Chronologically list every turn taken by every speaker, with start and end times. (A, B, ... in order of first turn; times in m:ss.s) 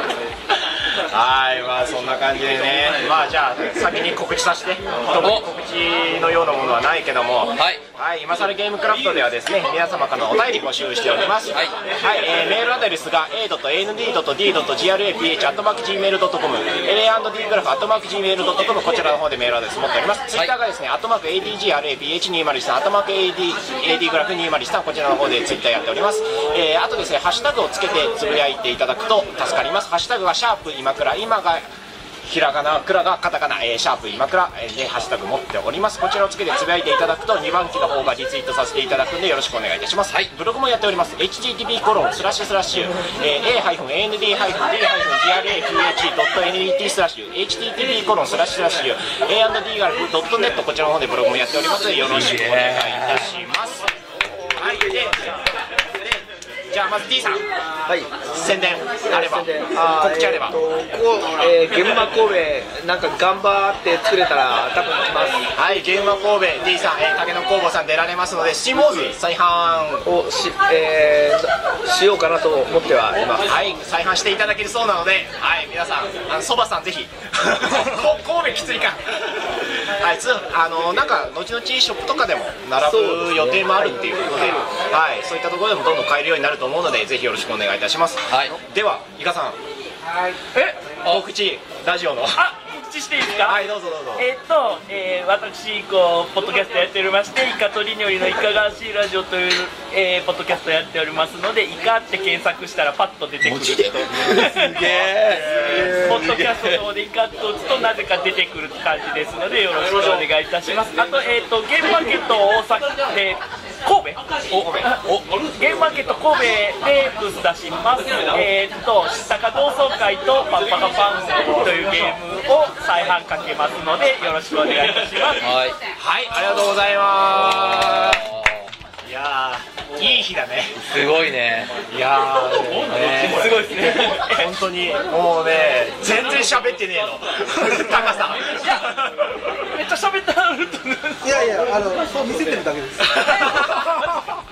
0:01.1-0:31.6 A
0:05.2-0:05.4 B
0:07.6-0:07.8 B
0:32.2-0:53.9 A
0:52.1-0:53.3 B
0:54.6-0:55.3 A
0:56.7-0:57.4 A
0:57.9-0:58.2 C
0:58.3-1:00.6 A
0:59.0-1:05.5 C
1:05.5-1:10.0 A
1:10.0-1:13.4 C
1:13.2-1:29.6 A
1:22.8-1:24.7 C
1:28.3-1:28.6 B
1:31.0-1:32.4 A
1:32.4-1:44.8 D
1:33.4-1:34.2 A
1:43.4-1:46.8 B
1:45.7-1:45.9 E
1:46.0-1:54.2 D
1:54.5-1:55.2 B
1:54.8-2:05.5 D
2:05.4-2:05.7 B
2:06.0-2:08.2 A
2:07.4-2:08.7 B
2:09.0-2:10.8 A
2:10.8-2:11.7 B
2:11.9-2:19.2 A
2:13.2-2:14.5 D
2:18.6-2:19.0 D
2:19.5-2:21.7 D
2:21.2-2:23.8 E
2:23.0-2:24.0 A